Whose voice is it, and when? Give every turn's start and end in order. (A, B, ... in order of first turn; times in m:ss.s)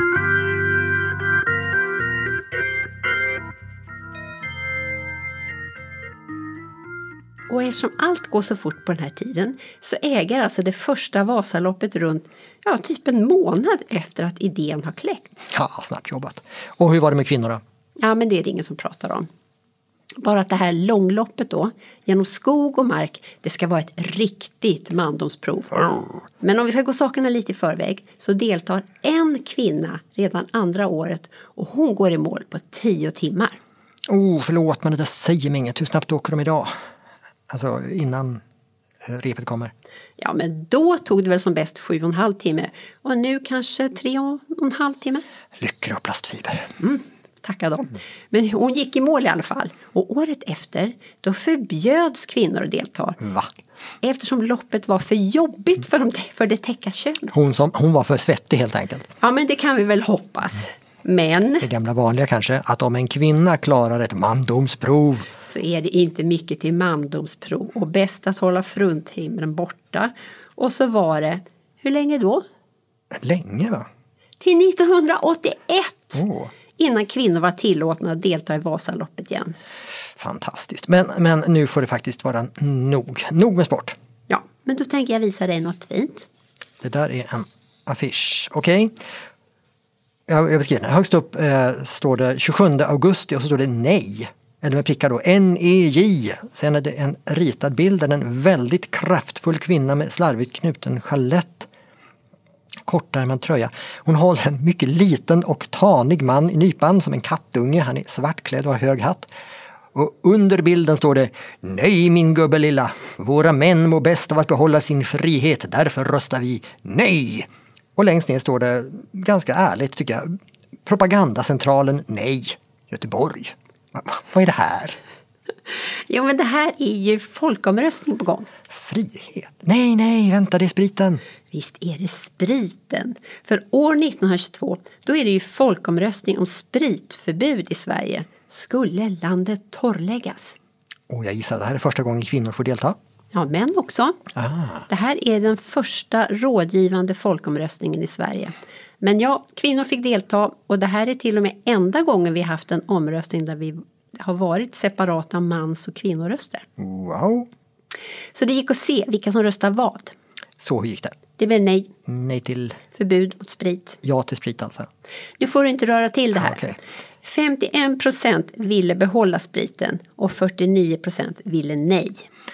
0:07.5-0:15.4 A
0:15.5-0:17.6 B
0:18.0-0:19.3 A
0:20.2-0:33.6 A
0:34.1-0:36.7 B
0:37.5-0:38.4 B
0:39.0-0:39.7 B
0:40.2-0:45.2 A
0:45.6-0:46.7 B
0:46.8-0:53.2 A
0:53.2-0:53.5 B
0:54.0-0:57.3 A
0:57.3-0:59.1 B
0:59.2-1:01.7 A
1:01.6-1:05.3 B
1:05.4-1:12.4 A
1:13.2-1:13.9 B
1:14.4-1:16.2 A
1:16.1-1:16.5 B
1:16.8-1:19.6 A
1:20.2-1:24.0 B
1:24.3-1:26.3 A
1:26.8-1:28.9 B
1:30.3-1:41.7 B
1:42.8-1:49.3 B
1:49.9-2:00.3 B
2:00.8-2:05.0 B
2:06.1-2:08.5 A
2:08.7-2:11.2 B
2:11.5-2:20.6 A
2:21.1-2:23.0 B
2:23.3-2:24.2 A
2:24.3-2:24.8 B
2:24.9-2:36.6 A
2:36.8-2:37.5 B
2:38.3-2:40.1 A
2:40.6-2:41.2 B
2:41.4-2:41.9 A
2:42.1-2:42.8 B
2:42.9-2:44.0 A
2:44.0-2:44.9 B
2:45.4-2:46.7 A
2:46.3-2:46.8 B
2:47.2-2:52.2 A